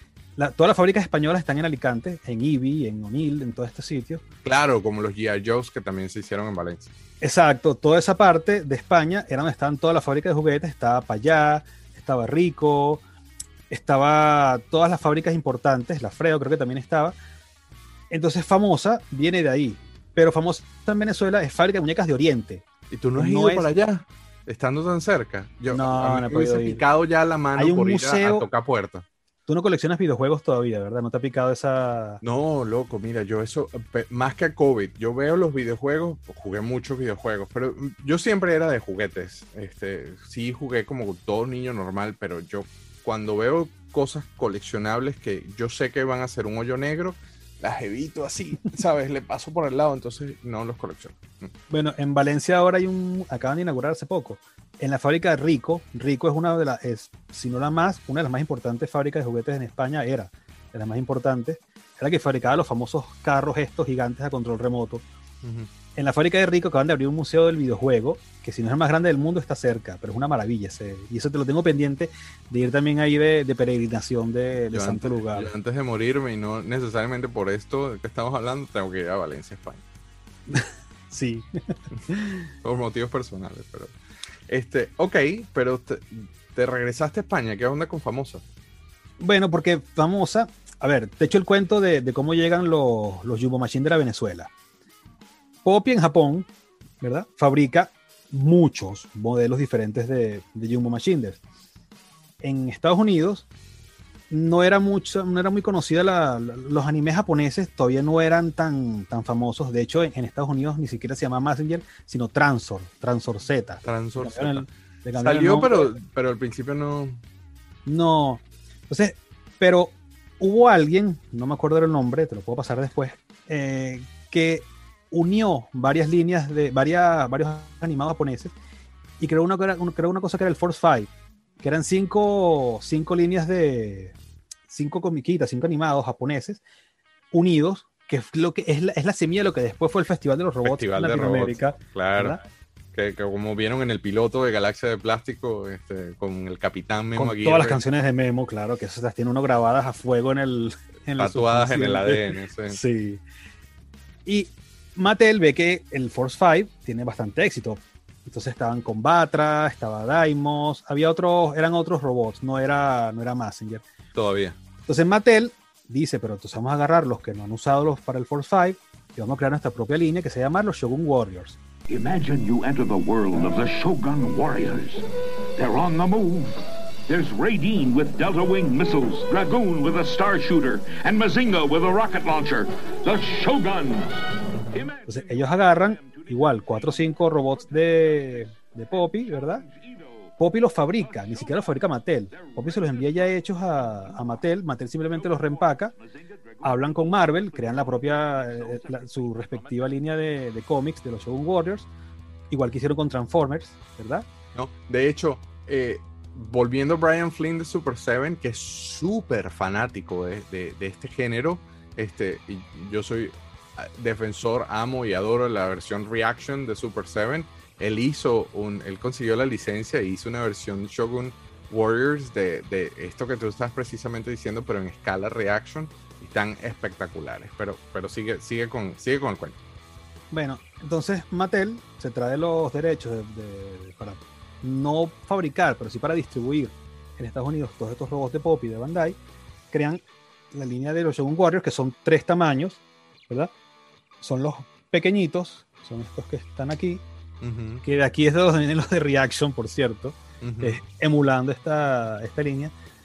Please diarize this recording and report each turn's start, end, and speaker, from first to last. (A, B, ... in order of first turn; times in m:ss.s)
0:00.4-0:04.2 A
0:04.4-0:06.9 B
0:07.2-0:13.0 A
0:13.7-0:17.1 A
0:18.1-0:22.6 A
0:22.9-0:29.0 B
0:23.2-0:23.7 A
0:25.7-0:26.8 A
0:27.6-0:28.4 A
0:29.5-0:32.2 A
0:32.2-0:51.5 B
0:51.7-1:05.0 A
1:05.4-1:05.7 B
1:05.9-1:15.5 A
1:14.7-1:19.8 B
1:20.5-1:22.5 A
1:22.6-1:23.9 B
1:24.5-1:28.4 B
1:29.2-1:34.5 A
1:35.6-1:36.5 A
1:37.0-1:41.4 A
1:42.4-1:43.4 A
1:44.3-1:55.9 A
1:53.8-1:57.2 B
1:57.8-2:08.5 A
2:09.2-2:11.1 A
2:11.6-2:14.1 A
2:14.7-2:16.6 A
2:17.3-2:22.4 A
2:20.6-2:22.4 B
2:22.9-2:27.8 B
2:27.2-2:33.2 A
2:31.2-2:32.8 B
2:34.2-2:43.8 A
2:44.1-2:44.6 B
2:44.9-2:51.6 A
2:51.9-2:55.0 C
2:55.6-3:10.4 C
3:04.5-3:04.9 B
3:05.0-3:09.6 A
3:10.4-3:15.9 A
3:10.9-3:14.5 C
3:15.0-3:19.8 C
3:16.6-3:21.9 A
3:22.5-3:24.2 A
3:24.5-3:49.6 B
3:50.3-3:59.2 A
3:59.7-4:03.5 A
4:04.2-4:07.0 A
4:07.4-4:07.8 B
4:07.8-4:12.7 A
4:10.4-4:10.8 B